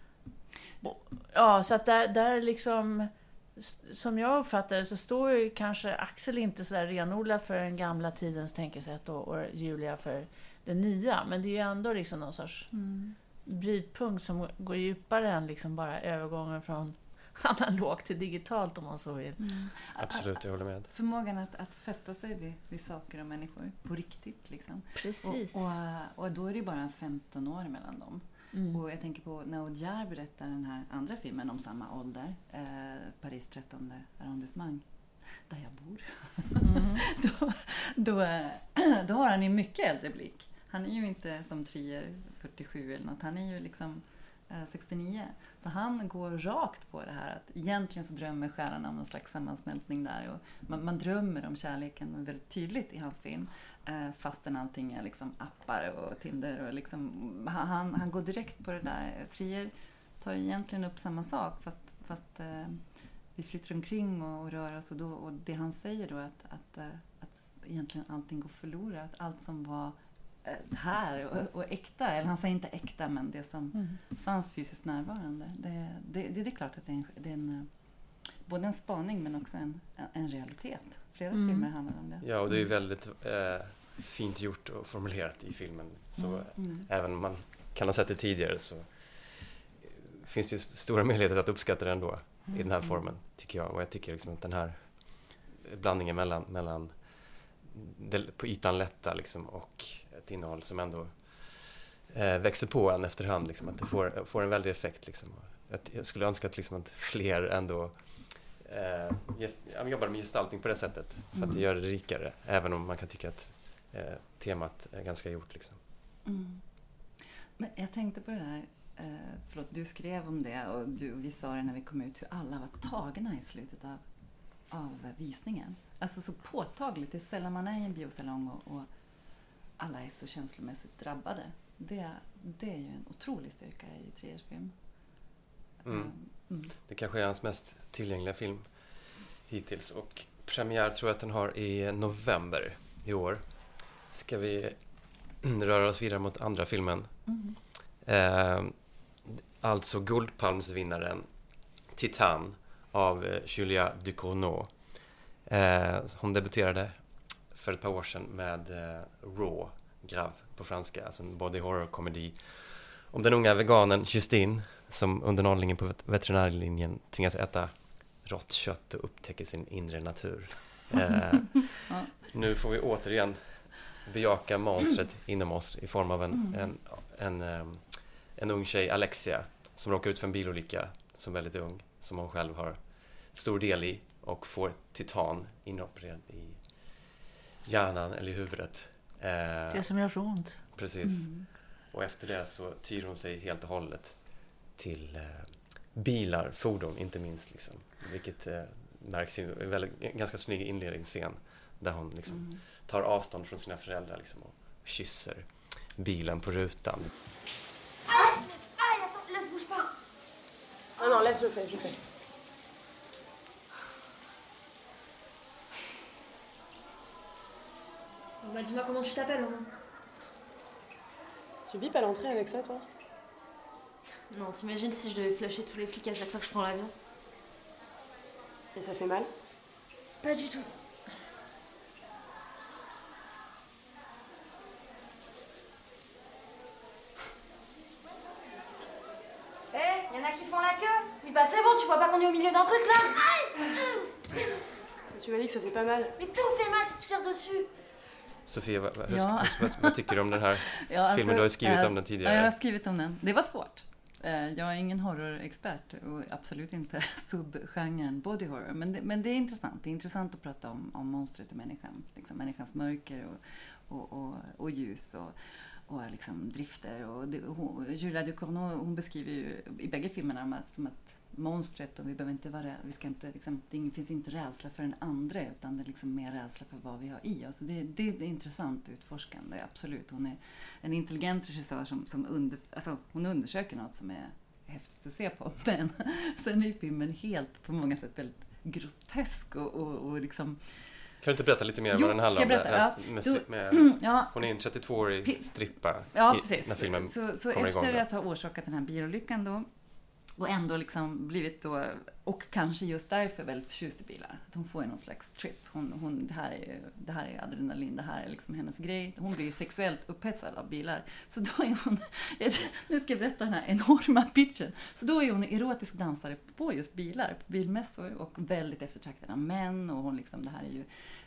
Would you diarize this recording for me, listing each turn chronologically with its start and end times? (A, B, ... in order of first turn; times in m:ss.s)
0:00.8-0:12.7 A
0:12.7-0:13.2 B
0:13.4-0:19.4 A
0:19.4-1:22.5 B
0:20.0-0:20.9 C
0:25.0-0:25.7 A
0:28.5-0:28.8 A
0:36.6-0:37.0 A
1:21.3-1:21.7 A
1:22.2-1:55.8 C
1:26.2-1:26.9 B
1:51.3-1:51.6 B
1:56.2-2:04.0 B
2:04.7-2:08.9 B
2:09.8-2:14.7 B
2:15.8-2:16.7 B
2:15.8-3:09.9 C
2:27.3-2:27.6 B
3:09.7-3:10.6 A
3:10.7-3:27.1 C
3:11.0-3:11.5 B
3:22.3-3:22.6 B
3:28.2-3:28.9 D
3:31.0-3:32.0 E
3:38.4-3:39.6 D
3:41.7-3:42.8 E
3:44.3-3:46.9 D
3:48.7-3:49.3 E
3:50.2-3:50.6 D
4:00.0-4:03.0 D
4:05.1-4:06.1 E
4:06.2-4:07.6 D
4:08.5-4:12.5 C
4:09.1-4:10.1 B
4:10.8-4:59.7 B
4:51.2-4:58.0 C
5:00.3-5:20.9 B